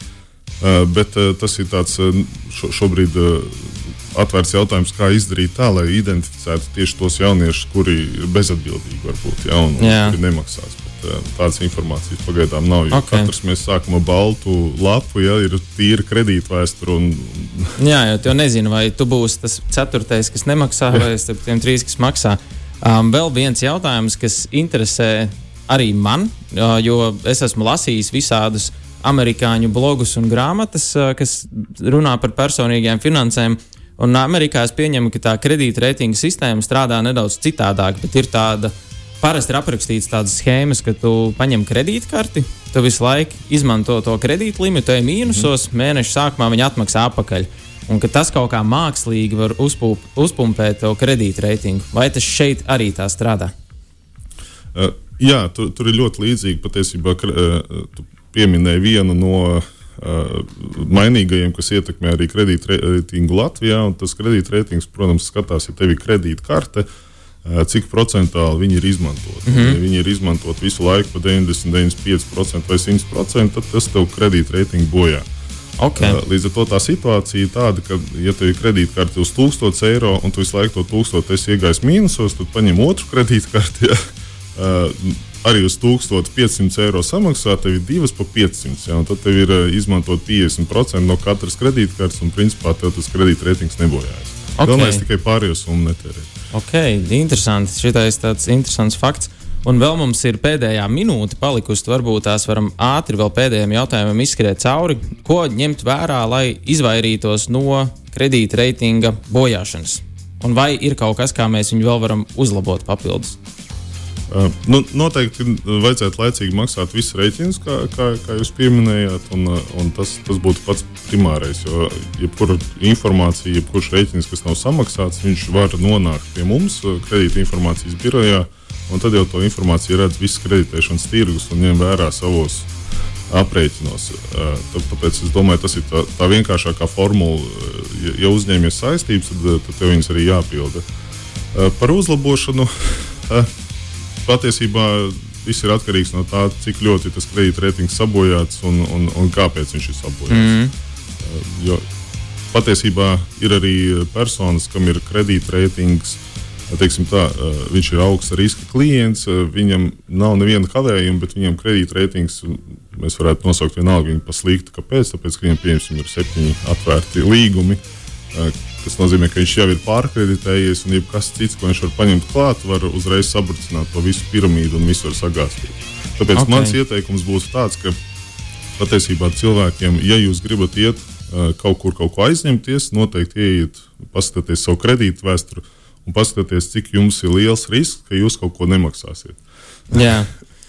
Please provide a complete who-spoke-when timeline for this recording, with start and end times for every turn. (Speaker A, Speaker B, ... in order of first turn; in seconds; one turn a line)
Speaker A: 0.6-17.8
Speaker B: 9.8-10.2
Speaker B: 12.9-13.3
Speaker B: 17.8-53.5
Speaker A: 54.7-66.9
Speaker A: 67.4-75.3
Speaker B: 69.5-69.8
Speaker B: 75.8-76.2
Speaker A: 76.0-84.0
Speaker A: 84.5-96.3
Speaker B: 94.6-95.0
Speaker B: 96.5-113.4
Speaker A: 114.3-132.7
Speaker A: 133.3-140.8
Speaker A: 141.5-143.5
Speaker A: 144.2-150.5
Speaker B: 150.3-150.7
Speaker A: 151.2-151.8
Speaker A: 152.5-167.8
Speaker A: 168.3-178.0
Speaker B: 176.3-176.8
Speaker A: 178.8-189.4
Speaker B: 189.9-190.3